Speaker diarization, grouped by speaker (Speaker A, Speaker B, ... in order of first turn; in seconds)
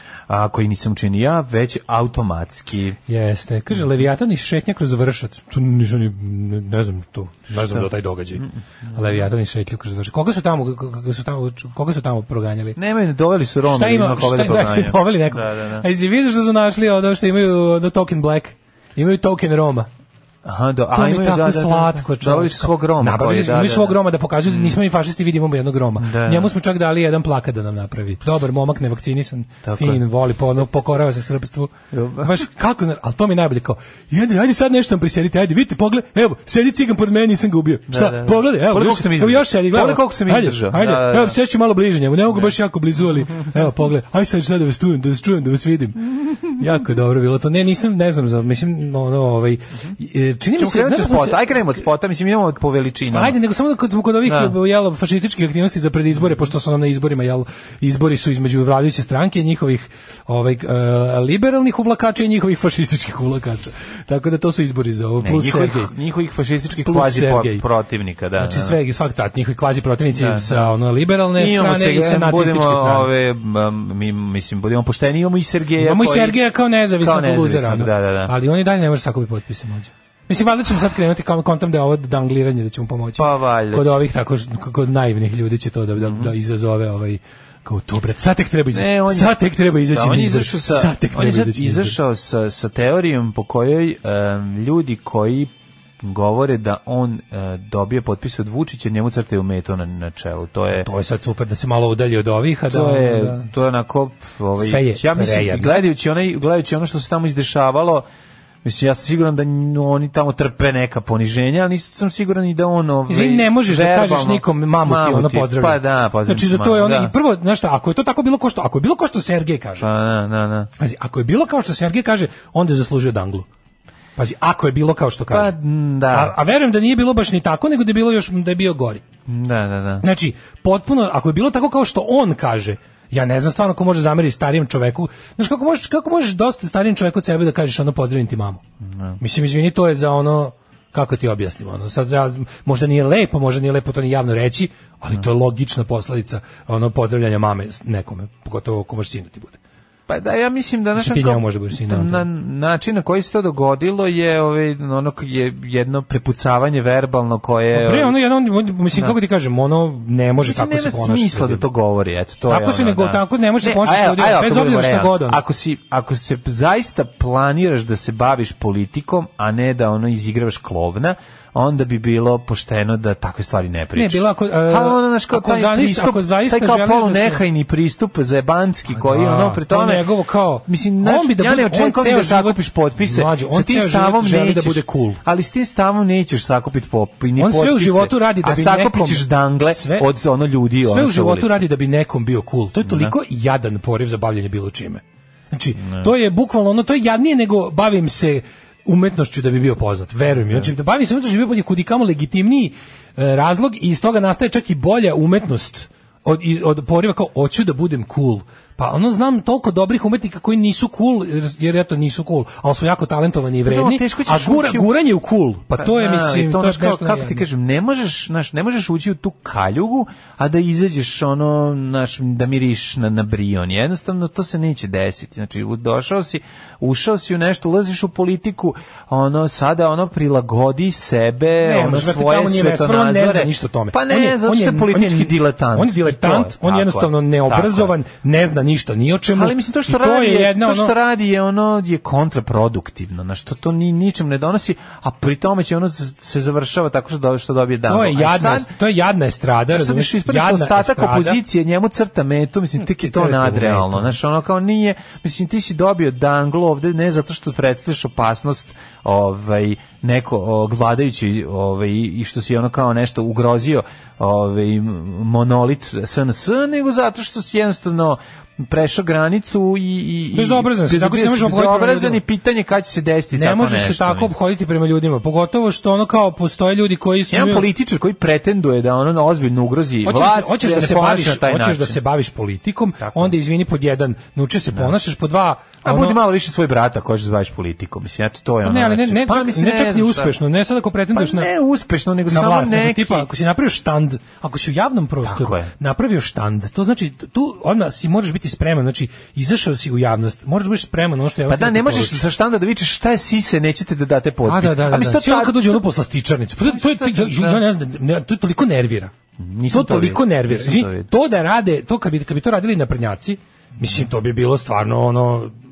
Speaker A: 0.3-3.0, 7.5-9.2, 12.8-15.9, 20.4-24.8, 26.0-26.5, 29.6-30.0, 31.9-32.3, 37.9-41.4, 50.6-53.4, 54.2-54.5, 65.2-68.8, 70.2-70.7, 71.3-76.4, 77.0-78.3, 83.2-84.0, 86.0-86.3, 88.7-100.9, 102.7-108.1, 108.6-117.1, 119.8-120.7, 125.3-126.3, 129.3-130.1, 138.9-139.2, 150.1-158.2, 160.4-180.1, 180.7-191.7, 192.8-193.1, 195.8-196.1, 200.3-200.7, 213.7-214.9, 215.8-237.9, 239.3-248.7, 249.7-274.4, 277.3-282.0, 283.0-283.3, 285.8-290.4, 291.1-293.3, 295.2-295.7, 301.5-305.8, 306.6-307.6, 309.4-311.1
Speaker B: 3.1-12.8, 13.7-19.9, 20.9-51.5, 53.1-65.9, 66.8-67.6, 68.4-73.1, 75.8-92.0, 100.8-103.5, 104.6-105.8, 113.1-119.9, 120.8-123.5, 124.2-125.5, 126.1-129.0, 130.0-138.6, 139.2-149.6, 151.0-152.3, 157.7-161.7, 162.5-165.4, 173.9-177.4, 178.9-185.2, 187.4-190.1, 190.8-217.4, 231.6-240.9, 247.9-251.4, 252.8-254.2, 270.3-272.2, 273.3-277.7, 280.1-286.2, 288.6-291.5, 292.3-302.2, 304.5-309.1, 309.7-315.5